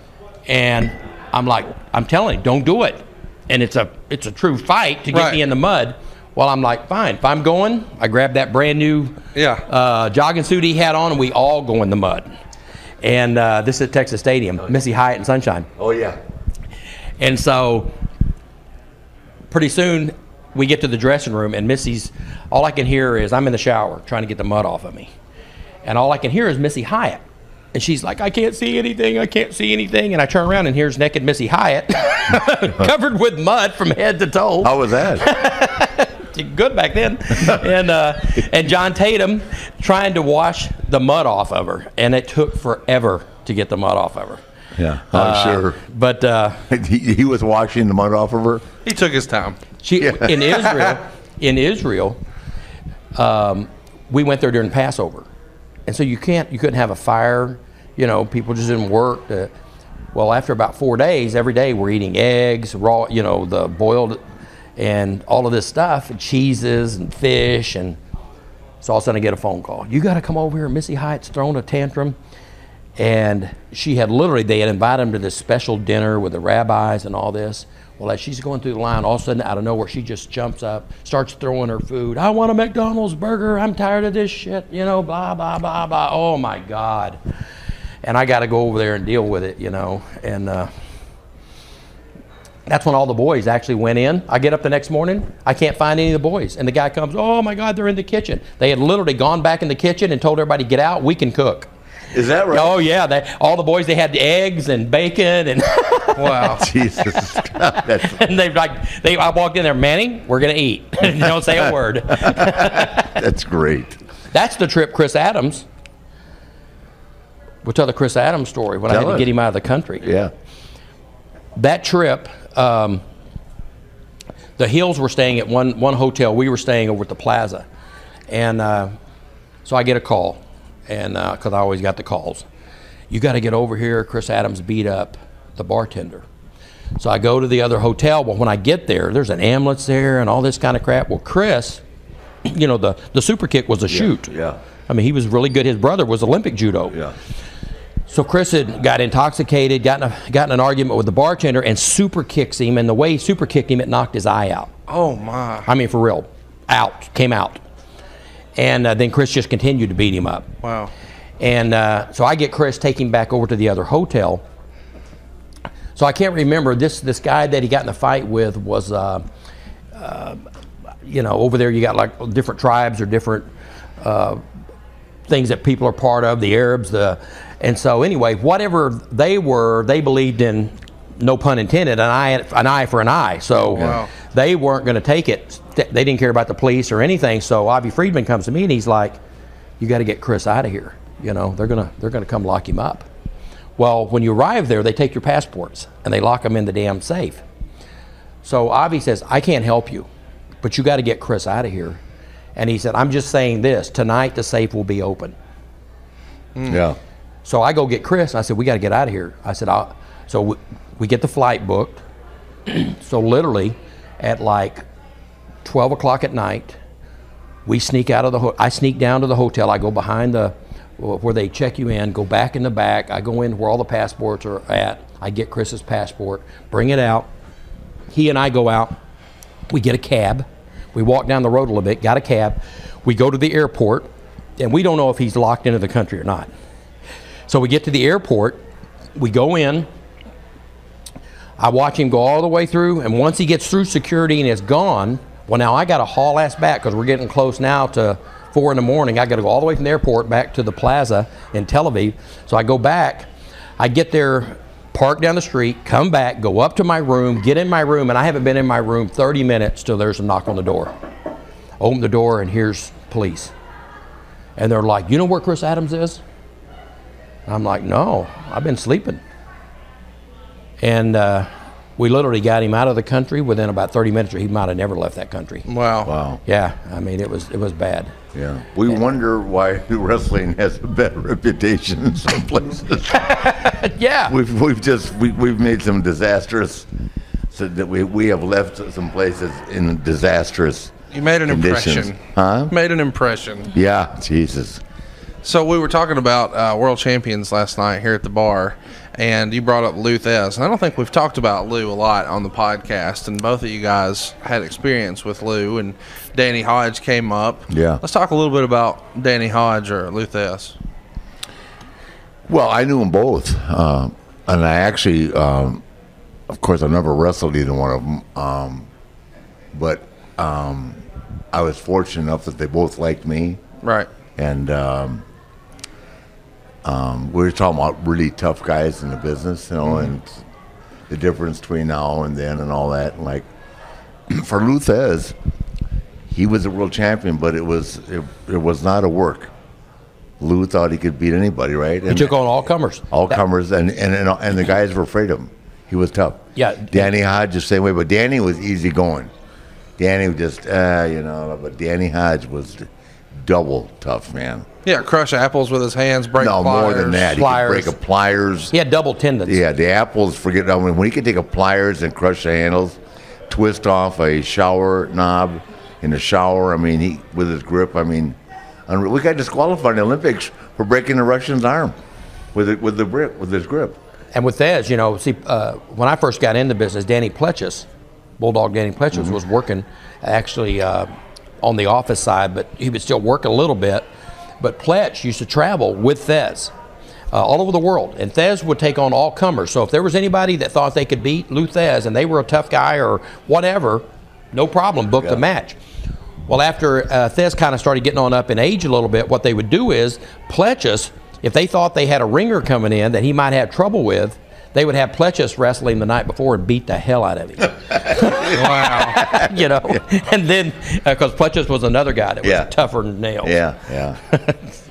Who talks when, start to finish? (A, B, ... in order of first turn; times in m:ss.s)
0:00.5-0:09.2 A
0:05.1-0:05.4 B
0:09.3-0:09.6 B
0:09.7-0:12.3 A
0:13.0-0:15.7 A
0:15.8-0:16.2 C
0:17.2-0:17.9 A
0:19.5-0:25.1 A
0:25.8-0:27.2 A
0:27.7-0:44.4 A
0:34.6-0:35.2 C
0:44.8-0:45.8 C
0:45.1-0:46.6 A
0:46.7-0:48.6 C
0:48.8-0:49.6 B
0:49.8-0:52.2 A
0:50.0-0:50.4 C
0:53.1-0:55.3 A
0:55.9-0:59.5 A
1:00.1-1:04.2 A
1:04.8-1:08.0 A
1:08.8-1:12.2 A
1:13.0-1:27.2 A
1:28.0-1:30.7 A
1:32.7-1:41.7 A
1:42.1-1:42.8 C
1:42.5-1:46.6 A
1:46.2-1:46.6 B
1:46.5-1:48.2 C
1:47.8-1:53.1 A
1:52.3-1:54.0 C
1:54.3-1:55.6 A
1:57.6-2:00.0 A
1:58.9-1:59.3 C
2:00.0-2:00.3 C
2:01.6-2:03.0 A
2:04.6-2:07.6 A
2:08.3-2:08.9 A
2:09.6-2:12.4 A
2:13.1-2:16.2 A
2:17.0-2:21.8 A
2:22.4-2:24.3 A
2:23.9-2:24.6 C
2:24.9-2:27.0 A
2:28.1-2:34.7 A
2:34.9-2:35.7 B
2:35.6-2:37.6 A
2:38.6-2:40.5 A
2:40.6-2:40.9 B
2:41.4-2:44.4 A
2:46.0-2:49.2 A
2:49.9-2:50.4 A
2:51.0-2:53.5 A
2:54.0-2:54.4 A
2:55.3-3:09.2 A
3:03.7-3:04.1 B
3:09.8-3:13.0 A
3:13.8-3:17.4 A
3:18.4-3:20.1 A
3:20.6-3:22.0 A
3:22.6-3:25.3 A
3:26.6-3:26.8 B
3:26.6-3:27.0 C
3:27.4-3:32.0 A
3:32.7-3:34.8 A
3:35.6-3:36.8 A
3:37.6-3:47.3 A
3:48.1-3:49.0 A
3:49.7-3:56.5 A
3:57.5-3:58.6 A
3:59.2-3:59.9 A
4:01.6-4:13.3 A
4:13.8-4:20.9 A
4:21.8-4:23.5 A
4:24.6-4:26.2 A
4:27.5-4:29.2 A
4:30.8-4:35.7 A
4:35.7-4:36.1 B
4:36.0-4:36.4 C
4:36.4-4:38.1 A
4:38.3-4:43.5 C
4:43.3-4:44.3 A
4:44.3-4:46.9 C
4:47.5-4:52.7 C
4:51.1-4:52.2 B
4:52.7-4:53.7 B
4:53.7-4:54.8 C
4:55.4-5:10.8 B
5:07.7-5:08.0 C
5:12.5-5:15.8 C
5:16.5-5:18.9 C
5:19.7-5:23.6 C
5:23.8-5:24.1 B
5:24.4-5:25.2 C
5:26.8-5:30.4 C
5:31.1-5:33.4 C
5:34.3-5:35.3 C
5:36.3-5:39.5 C
5:40.4-5:42.3 C
5:42.1-5:43.4 A
5:43.1-5:49.3 C
5:46.6-5:47.1 A
5:50.0-5:54.7 C
5:54.8-5:57.3 B
5:56.4-5:58.7 C
5:57.3-5:57.9 A
5:58.7-5:59.6 A
5:59.4-6:03.0 C
6:03.5-6:08.4 C
6:08.9-6:12.0 C
6:12.5-6:14.0 C
6:14.3-6:17.8 A
6:18.4-6:24.1 A
6:24.6-6:26.7 A
6:27.3-6:35.8 A
6:36.5-6:53.6 A
6:47.9-6:50.0 C
6:48.5-6:49.2 B
6:52.4-6:52.7 C
6:53.4-6:54.2 C
6:54.3-6:54.6 A